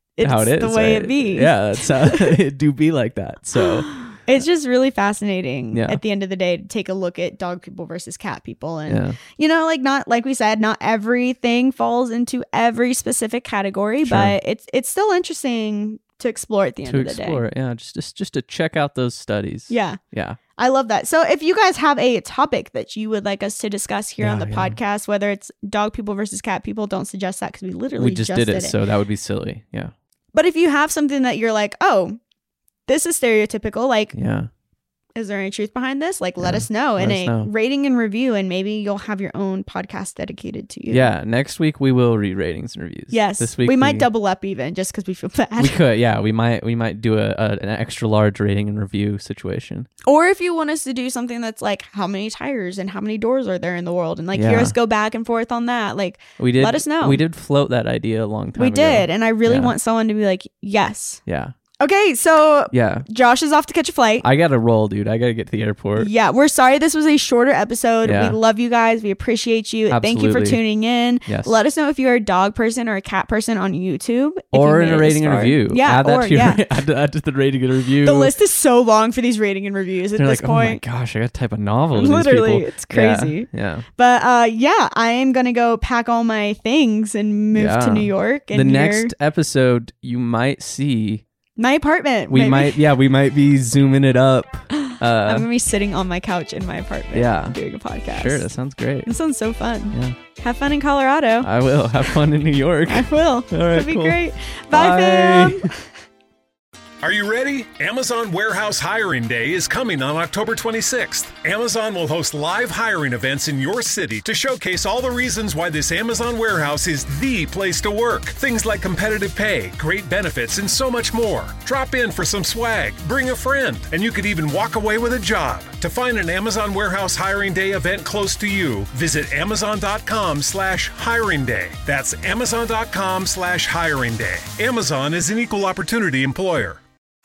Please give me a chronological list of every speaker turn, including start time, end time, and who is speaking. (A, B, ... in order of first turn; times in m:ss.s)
0:00.2-0:02.4 A
0:00.2-0:04.0 B
0:04.0-0:17.4 A
0:05.7-0:06.0 B
0:08.9-0:09.2 B
0:14.0-0:14.4 B
0:16.8-0:20.4 B
0:19.7-0:20.0 A
0:20.6-0:28.7 A
0:24.2-0:24.8 B
0:28.0-0:29.9 B
0:30.3-0:32.2 A
0:32.9-0:34.1 A
0:34.1-0:34.5 B
0:35.2-0:41.1 A
0:36.4-0:37.5 B
0:40.9-0:44.0 B
0:43.1-0:45.8 A
0:45.6-0:49.9 B
0:50.0-0:57.2 A
0:54.3-0:54.7 B
0:56.4-0:59.7 B
0:58.6-1:01.2 A
1:01.2-1:01.5 B
1:01.8-1:04.2 A
1:02.7-1:03.0 B
1:04.2-1:06.1 B
1:06.0-1:16.6 A
1:08.0-1:08.4 B
1:09.9-1:10.6 B
1:11.2-1:11.5 B
1:14.5-1:18.3 B
1:18.0-1:20.8 A
1:20.2-1:23.8 B
1:21.9-1:29.1 A
1:27.5-1:31.2 B
1:31.6-1:32.8 A
1:32.3-1:35.5 B
1:34.7-1:38.5 A
1:37.1-1:37.6 B
1:38.1-1:39.1 B
1:39.0-1:41.5 A
1:41.4-1:44.2 B
1:42.9-1:45.8 A
1:44.7-1:45.7 B
1:47.0-2:16.8 C